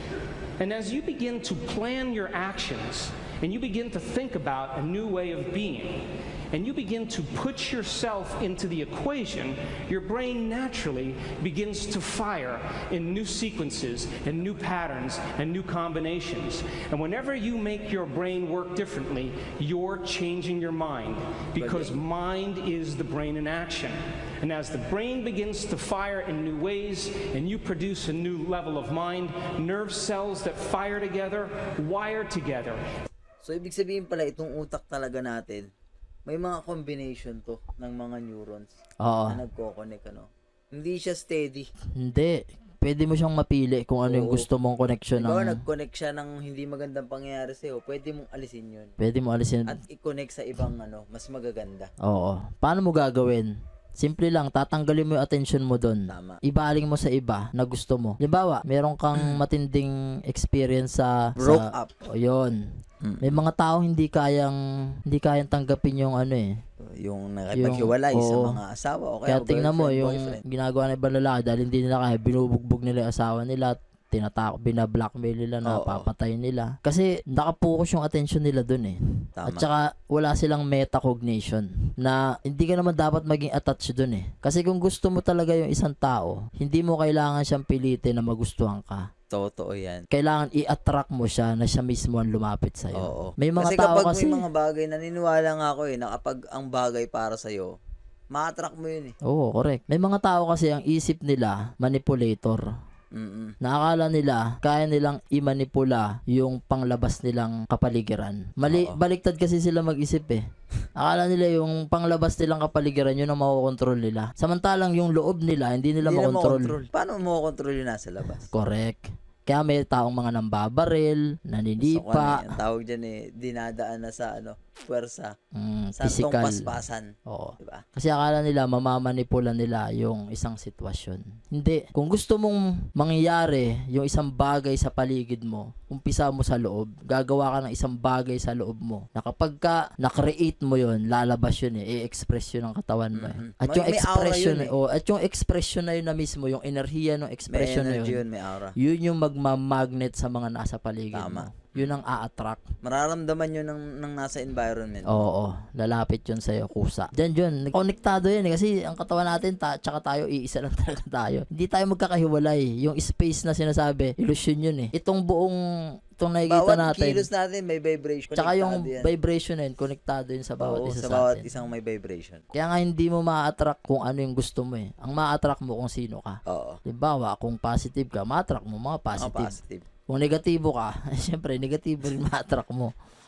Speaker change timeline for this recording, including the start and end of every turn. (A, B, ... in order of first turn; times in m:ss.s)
0:00.6-0:32.8 A
0:21.6-0:22.0 B
0:33.4-0:35.7 B
0:36.2-0:38.7 B
0:39.0-0:39.4 C
0:39.3-0:41.7 B
0:42.0-0:45.6 C
0:44.0-0:44.5 B
0:45.2-0:49.0 B
0:49.0-0:49.8 C
0:49.7-0:51.9 B
0:52.0-1:02.6 C
0:56.1-0:56.4 B
1:01.4-1:02.0 B
1:03.0-1:03.3 B
1:03.2-1:06.6 C
1:06.8-1:10.4 B
1:07.5-1:08.6 C
1:09.3-1:29.1 C
1:15.6-1:16.1 B
1:19.4-1:19.7 B
1:29.3-1:30.1 B
1:30.1-1:34.4 C
1:32.9-1:37.7 B
1:38.3-1:39.2 B
1:39.2-1:42.6 C
1:43.1-1:43.6 B
1:43.6-1:50.4 C
1:48.7-1:49.0 B
1:51.0-1:56.8 C
1:56.0-1:58.5 B
1:58.5-2:02.5 C
2:01.8-2:05.3 B
2:05.5-2:06.7 C
2:06.0-2:07.8 B
2:07.3-2:28.2 C
2:23.1-2:24.7 B
2:27.5-2:28.8 B
2:28.8-2:32.6 C
2:31.1-2:32.0 B
2:32.8-2:35.3 B
2:35.0-2:45.6 C
2:46.2-2:47.2 C
2:46.4-2:49.1 B
2:48.4-2:51.4 C
2:50.6-2:52.4 B
2:52.5-2:59.5 C
2:56.5-2:56.8 B
2:59.2-2:59.8 B
3:00.1-3:02.9 C